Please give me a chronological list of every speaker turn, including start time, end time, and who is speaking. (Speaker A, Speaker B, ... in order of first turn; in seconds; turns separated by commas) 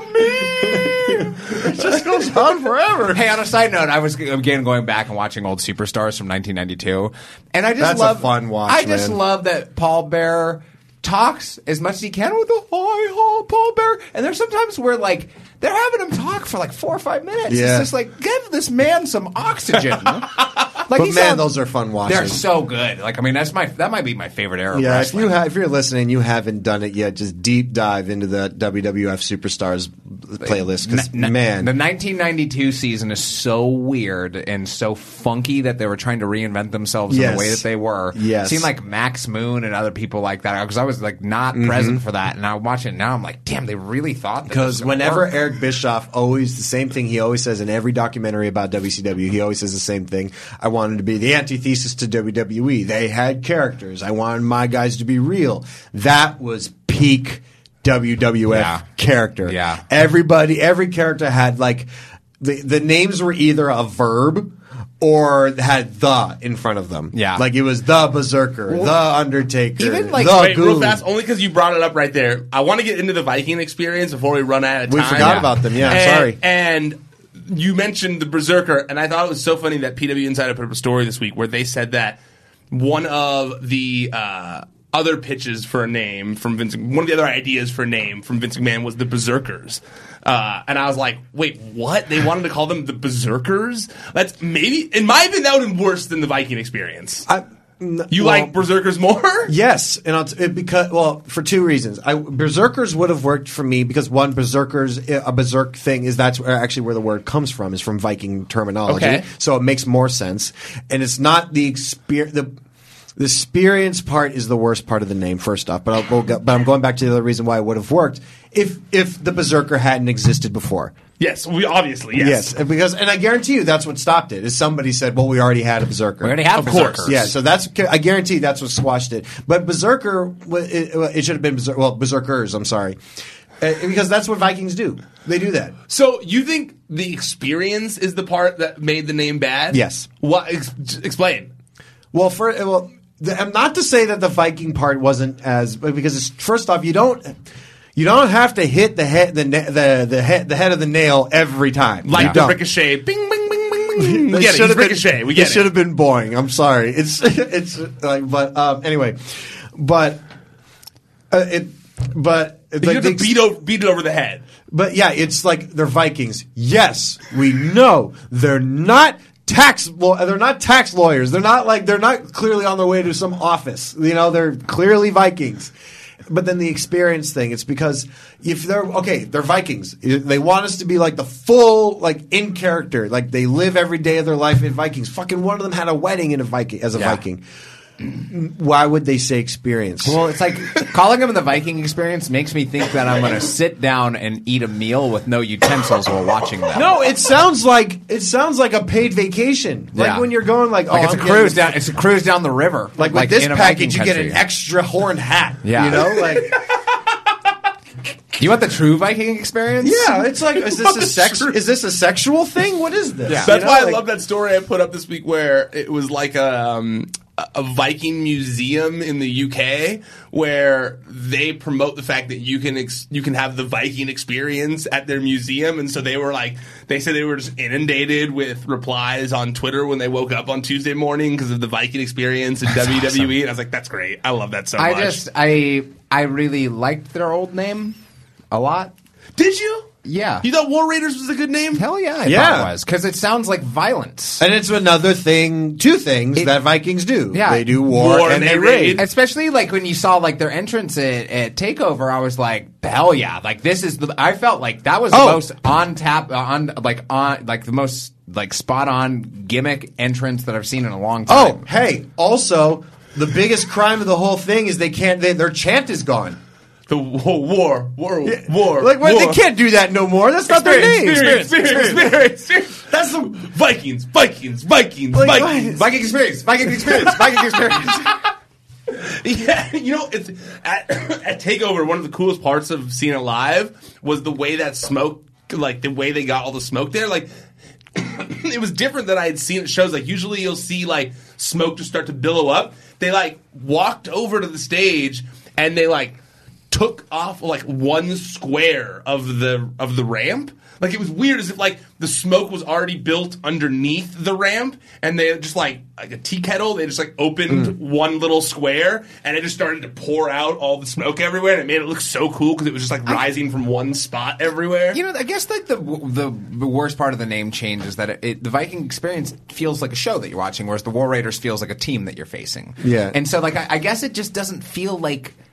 Speaker A: 0.4-3.3, Speaker B: 3.1-21.5, Speaker A: 7.8-9.2, Speaker A: 17.5-17.9, Speaker A: 20.9-22.4, Speaker B: 22.1-25.3, Speaker A: 24.7-31.7, Speaker B: 30.4-45.3, Speaker A: 37.1-38.7, Speaker A: 41.5-42.0, Speaker A: 44.5-61.9, Speaker B: 58.5-58.9, Speaker B: 59.5-59.8, Speaker A: 62.4-71.0, Speaker B: 67.1-67.5, Speaker B: 68.7-69.0, Speaker B: 69.8-70.6, Speaker C: 70.2-82.2, Speaker A: 74.9-76.4, Speaker B: 75.2-76.0, Speaker C: 82.7-97.3, Speaker A: 97.3-98.5, Speaker C: 98.1-99.5, Speaker A: 99.5-112.5, Speaker C: 108.9-109.3, Speaker A: 113.2-120.9, Speaker C: 121.2-122.5, Speaker A: 122.2-133.0, Speaker B: 126.2-127.3, Speaker C: 126.5-127.2, Speaker A: 133.6-135.8, Speaker C: 135.9-141.5, Speaker A: 139.7-140.1, Speaker A: 142.1-147.4, Speaker A: 148.0-152.6, Speaker C: 152.0-155.7, Speaker A: 154.0-159.2, Speaker A: 159.7-160.2, Speaker A: 161.3-163.4, Speaker C: 162.8-164.4, Speaker A: 164.7-175.7, Speaker A: 176.3-187.4, Speaker A: 188.1-190.2, Speaker B: 190.0-196.9, Speaker A: 196.7-201.8, Speaker B: 199.9-200.3, Speaker B: 200.9-204.4, Speaker A: 203.0-206.6, Speaker B: 205.6-206.2, Speaker C: 206.2-206.8, Speaker B: 208.4-210.1, Speaker A: 209.8-214.0, Speaker C: 210.5-211.6, Speaker B: 213.3-213.6, Speaker C: 213.4-235.2, Speaker B: 232.9-233.3, Speaker B: 234.8-238.0, Speaker B: 238.5-238.9, Speaker C: 239.4-239.9, Speaker B: 240.1-240.5, Speaker C: 240.4-241.8, Speaker B: 241.8-244.4, Speaker A: 242.2-242.7, Speaker A: 244.4-249.0, Speaker B: 247.3-247.8, Speaker C: 247.9-249.0, Speaker B: 249.0-261.6, Speaker A: 255.1-255.4, Speaker A: 261.3-266.4, Speaker C: 266.9-269.4, Speaker A: 268.2-272.2, Speaker C: 270.5-275.6, Speaker A: 272.9-273.4, Speaker A: 275.1-278.0, Speaker B: 275.6-278.1, Speaker C: 279.0-287.3, Speaker C: 287.9-296.2, Speaker C: 296.7-315.0, Speaker A: 307.5-307.7, Speaker B: 314.9-325.4, Speaker A: 322.8-323.2